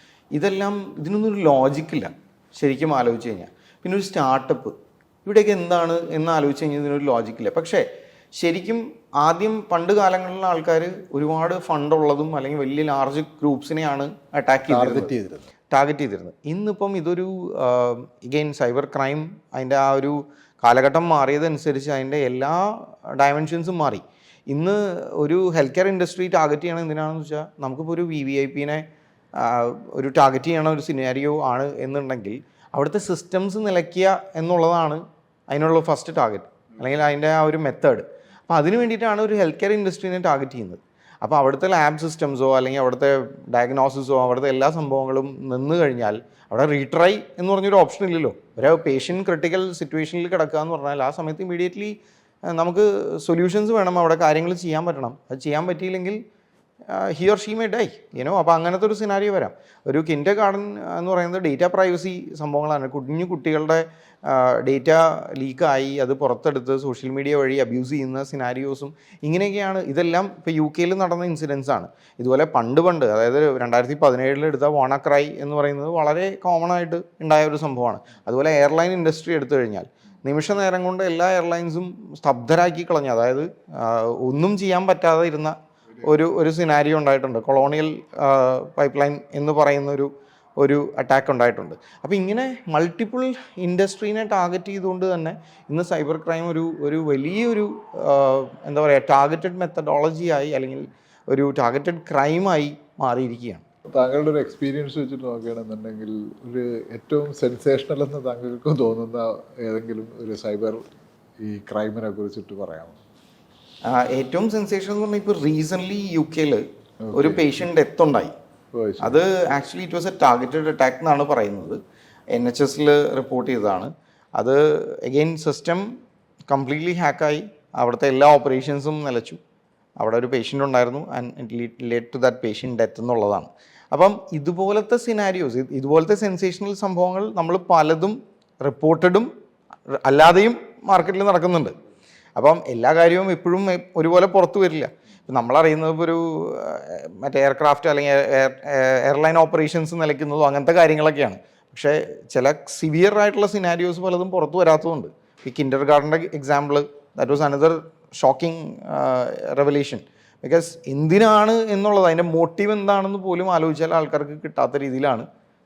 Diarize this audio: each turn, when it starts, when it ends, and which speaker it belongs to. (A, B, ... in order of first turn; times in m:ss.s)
0:00.3-0:07.8 A
0:08.4-0:15.1 A
0:14.7-0:15.5 B
0:15.7-0:52.0 A
0:52.5-0:56.2 A
0:56.9-1:43.6 A
1:43.9-1:50.8 B
1:51.4-1:53.0 B
1:53.8-1:58.3 A
1:57.0-1:57.5 B
1:58.7-1:59.2 B
1:59.0-2:01.8 A
2:02.3-2:05.9 A
2:06.5-2:09.4 A
2:10.0-2:19.3 A
2:19.9-2:21.7 A
2:22.4-2:45.3 A